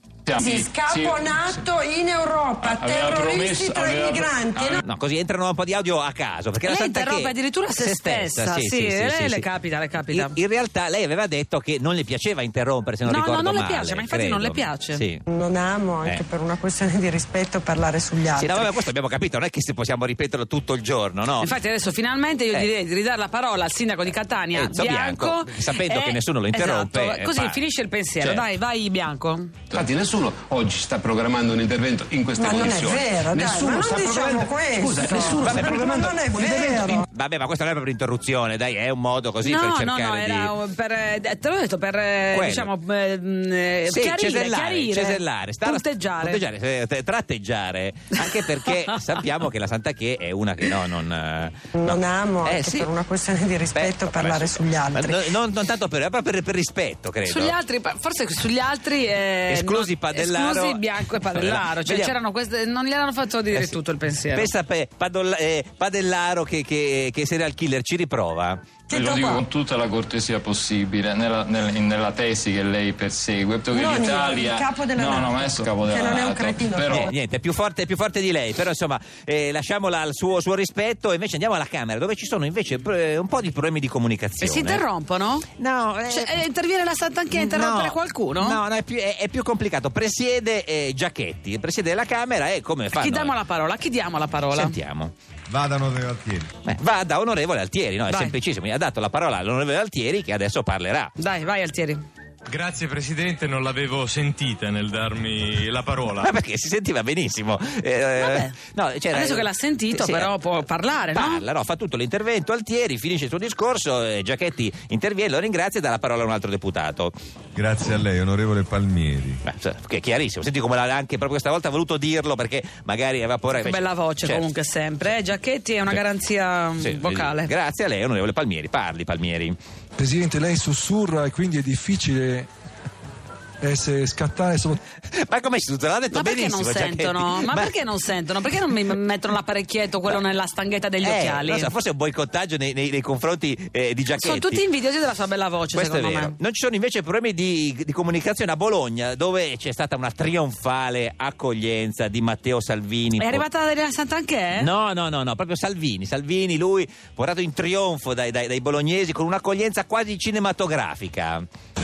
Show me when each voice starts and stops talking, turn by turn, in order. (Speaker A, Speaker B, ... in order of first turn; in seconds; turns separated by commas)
Speaker A: 0.3-1.6, Speaker B: 0.4-4.8, Speaker A: 2.6-4.8, Speaker C: 4.8-9.5, Speaker D: 6.6-10.3, Speaker C: 10.1-15.2, Speaker D: 13.1-15.0, Speaker B: 15.3-18.7, Speaker C: 18.4-21.5, Speaker D: 21.4-29.6, Speaker C: 24.6-27.6, Speaker E: 29.7-37.0, Speaker B: 32.4-37.1, Speaker C: 35.5-35.8, Speaker C: 37.1-40.5, Speaker D: 39.4-46.4, Speaker C: 42.3-42.7, Speaker C: 43.9-52.9, Speaker D: 48.2-48.8, Speaker B: 51.8-55.3, Speaker C: 53.7-57.6, Speaker D: 57.2-64.5, Speaker C: 59.5-62.1, Speaker C: 64.3-68.7, Speaker B: 68.9-69.5, Speaker A: 68.9-77.1, Speaker B: 73.7-77.1, Speaker C: 76.9-84.8, Speaker D: 84.4-85.5, Speaker C: 85.6-86.4, Speaker D: 86.1-88.6, Speaker C: 87.3-93.4, Speaker D: 92.9-94.8, Speaker C: 94.5-95.1, Speaker F: 95.5-96.5, Speaker C: 96.6-101.1, Speaker D: 98.1-98.4, Speaker D: 101.2-102.0, Speaker G: 102.5-106.0, Speaker C: 106.2-110.3, Speaker D: 108.2-108.6, Speaker D: 109.1-111.4, Speaker C: 111.1-117.1, Speaker F: 117.6-119.4, Speaker C: 119.4-124.4, Speaker D: 123.5-127.5, Speaker C: 126.8-129.6, Speaker H: 130.0-132.5, Speaker H: 133.6-134.8, Speaker C: 135.1-137.7, Speaker D: 136.1-141.7, Speaker C: 141.0-144.6, Speaker D: 144.2-146.3, Speaker C: 145.7-153.4, Speaker D: 153.2-154.7, Speaker C: 154.6-161.5